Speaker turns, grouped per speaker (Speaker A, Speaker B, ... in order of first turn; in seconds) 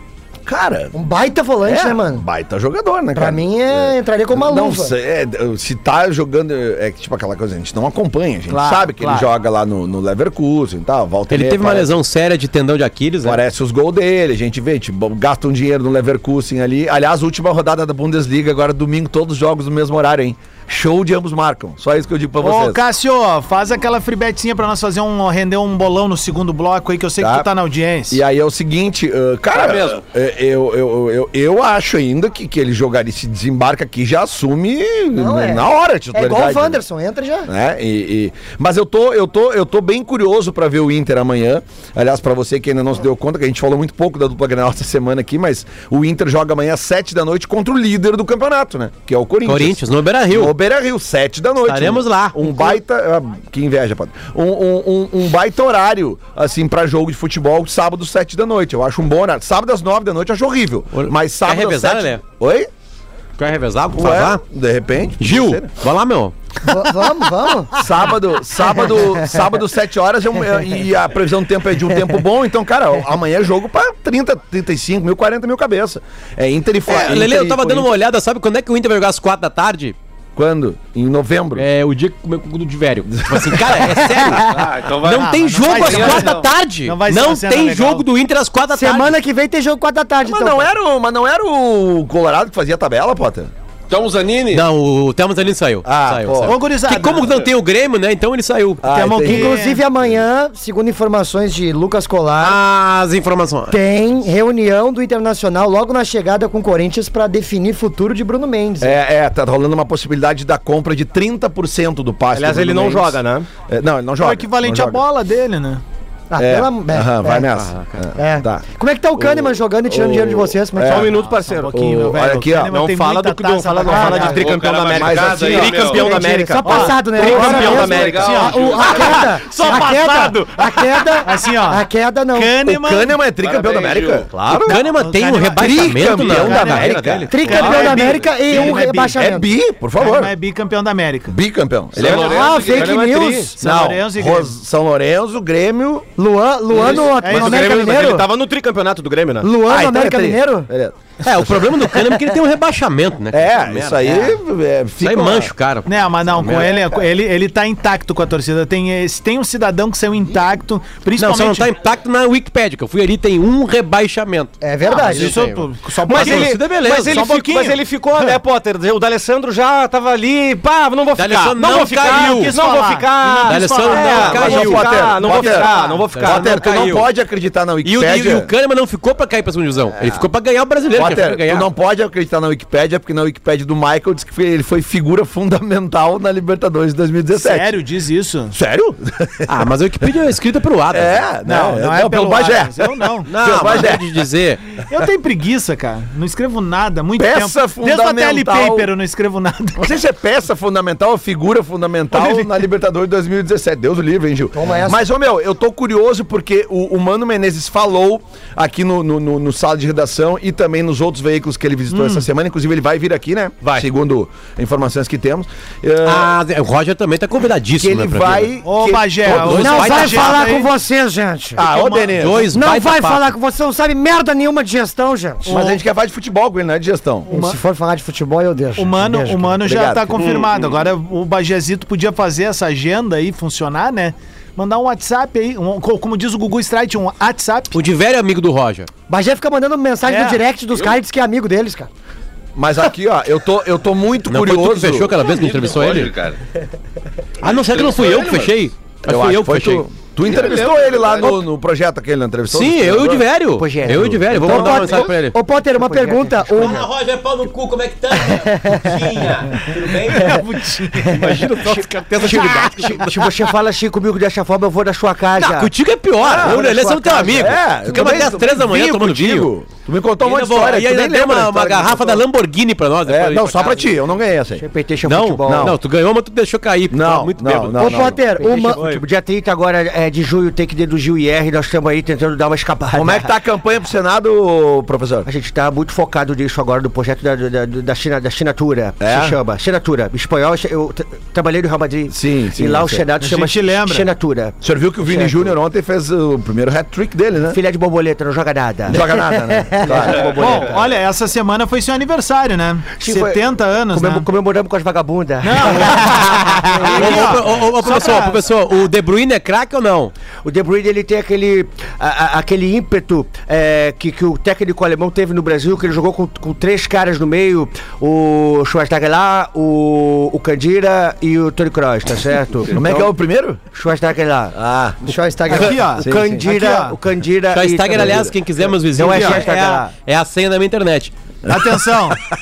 Speaker A: 0.5-0.9, 1.6-11.9, 13.2-22.8, 27.2-27.5, 28.1-36.8, 37.5-62.7, 63.9-65.7, 67.7-77.9, 80.3-81.7, 83.2-83.9, 90.2-93.5, 95.9-96.5, 98.8-100.2, 108.8-115.0, 116.4-121.2, 121.7-122.8, 124.9-125.9, 132.7-134.3, 135.6-137.6, 138.5-140.3, 141.3-142.4, 143.6-146.1, 149.6-151.7, 153.3-155.5, 174.2-178.5, 180.9-187.7, 188.5-189.7, 190.9-194.2, 197.2-198.9, 199.8-216.3, 217.8-219.7, 221.6-222.4, 225.5-227.3, 229.6-230.2, 242.6-245.2, 249.1-253.2, 254.3-255.1, 266.2-266.6, 267.3-272.2, 273.1-274.6, 275.4-275.8, 276.9-278.2, 282.9-285.3, 289.0-289.4, 292.1-293.0, 294.6-297.6, 298.9-300.4, 322.7-323.6, 324.5-325.0, 326.0-326.4, 331.5-331.7
Speaker B: 0.9-2.2, 3.1-4.9, 35.2-37.5, 66.7-67.8, 68.7-69.4, 88.7-90.7, 99.2-102.6, 103.7-109.0, 116.3-117.5, 118.2-121.1, 123.9-124.3, 125.9-132.7, 137.3-139.5, 142.1-143.5, 146.2-148.3, 149.4-150.7, 164.6-165.4, 204.5-205.0, 219.6-221.7, 222.5-225.5, 227.3-229.6, 239.1-241.9, 254.4-256.9, 258.4-258.8, 277.8-278.8, 299.6-300.0, 325.0-325.9
Speaker C: 8.5-9.3, 22.4-28.2, 85.0-88.0, 96.4-97.3, 98.9-99.8, 114.2-115.8, 121.2-124.5, 126.0-128.9, 129.5-129.9, 131.2-133.2, 134.7-139.2, 139.9-141.3, 143.5-144.5, 147.1-147.8, 155.8-161.7, 164.9-168.3, 171.7-176.1, 187.3-188.5, 191.4-193.8, 194.9-200.0, 202.1-202.6, 211.9-212.3, 218.6-220.7, 221.6-222.2, 225.4-225.8, 227.3-227.6, 228.8-237.7, 240.0-240.4, 260.1-261.6, 293.2-294.1, 300.3-304.3, 305.4-308.4, 325.5-327.0, 329.0-329.5, 331.5-332.2
Speaker D: 11.3-13.4, 49.4-50.5, 51.6-52.8, 60.9-62.2, 63.4-64.4, 65.2-66.3, 76.9-80.0, 81.6-89.2, 94.5-98.9, 102.4-103.8, 117.6-117.8, 134.7-137.0, 151.2-154.1, 155.0-156.8, 161.2-167.2, 171.2-172.6, 173.4-175.1, 176.1-177.1, 177.8-181.7, 189.5-191.2, 193.3-194.6, 216.0-218.6, 219.2-220.6, 222.2-223.3, 237.7-238.9, 244.3-246.1, 247.4-249.8, 252.5-255.3, 256.5-260.5, 261.4-263.0, 265.4-269.5, 270.2-273.9, 275.0-279.0, 306.9-310.1, 327.5-331.1
Speaker E: 29.5-30.0, 84.4-86.5, 93.9-94.7, 124.3-126.2, 127.5-129.2, 133.4-134.3, 142.0-142.9, 230.2-230.7, 245.2-246.4, 247.4-248.6, 250.2-251.4
Speaker F: 112.3-113.5, 120.8-121.9, 122.7-131.1, 134.3-134.8, 136.8-138.3, 141.9-143.5, 146.7-149.5, 165.9-176.7, 261.2-261.8
Speaker G: 253.6-254.9, 255.7-256.7, 262.1-267.5, 274.6-275.7, 278.3-283.3, 285.2-295.5, 297.5-299.0, 299.8-300.9, 303.0-307.4, 310.4-323.1, 323.7-324.5, 325.4-328.3, 328.9-329.9